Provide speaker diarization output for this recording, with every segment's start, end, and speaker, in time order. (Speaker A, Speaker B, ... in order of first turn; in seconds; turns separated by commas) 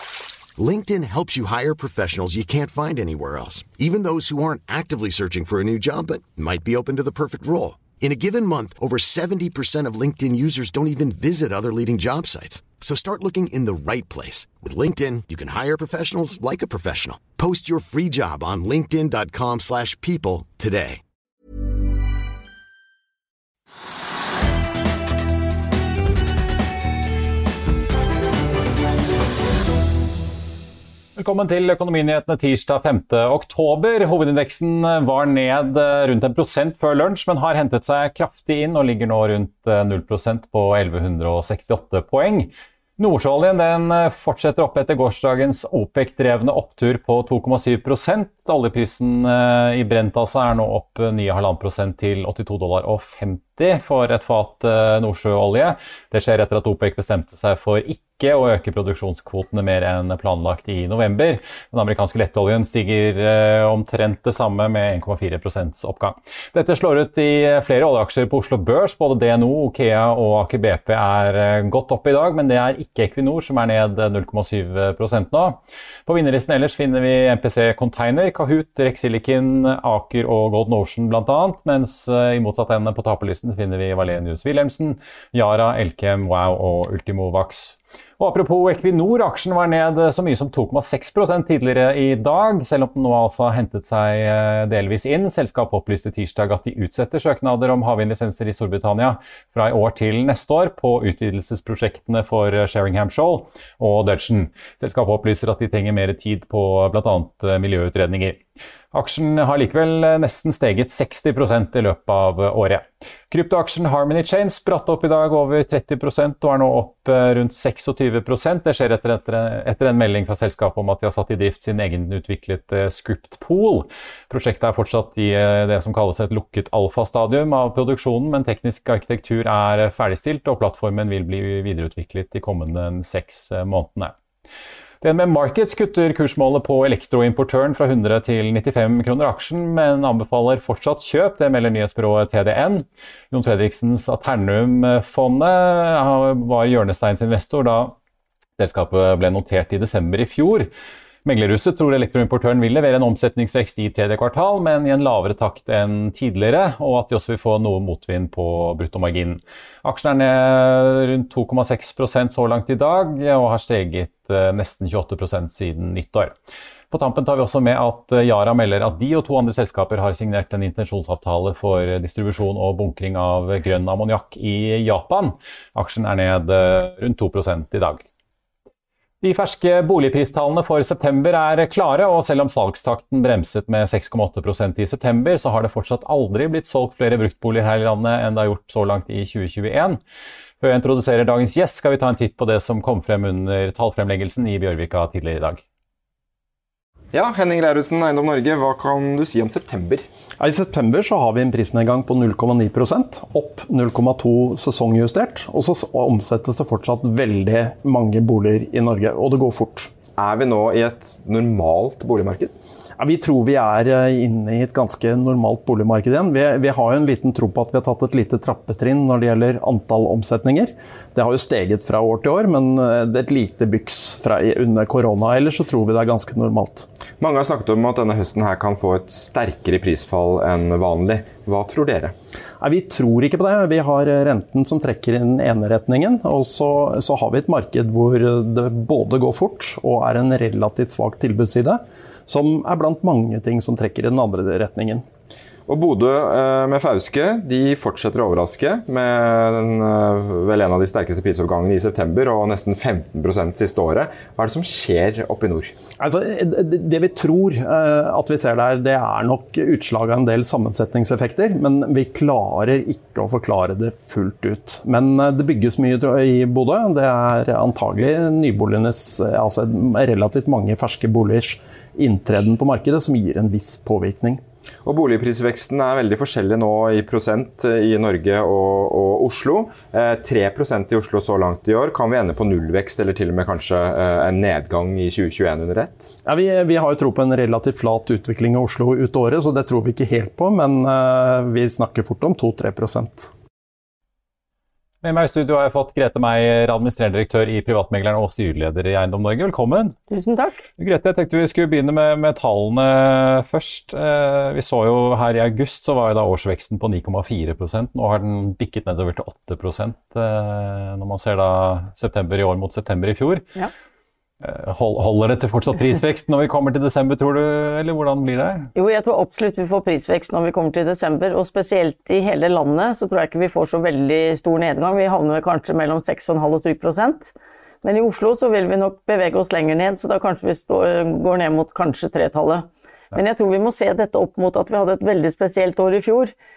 Speaker A: 0.6-21.0, Speaker B: 31.2-108.4, Speaker B: 108.9-134.1, Speaker B: 135.0-147.9, Speaker B: 148.6-150.7, Speaker B: 151.2-166.3, Speaker B: 166.9-178.0, Speaker B: 179.2-190.0, Speaker B: 190.6-195.6, Speaker C: 197.1-200.1, Speaker D: 200.4-209.9, Speaker C: 210.2-212.5, Speaker D: 213.0-226.9, Speaker C: 227.2-232.1, Speaker D: 232.6-245.0, Speaker C: 245.7-255.7, Speaker D: 256.0-274.4, Speaker C: 274.8-286.1, Speaker D: 286.2-293.3, Speaker B: 295.0-300.0, Speaker E: 300.1-300.6, Speaker B: 300.8-313.5, Speaker B: 314.4-318.7, Speaker E: 318.8-336.3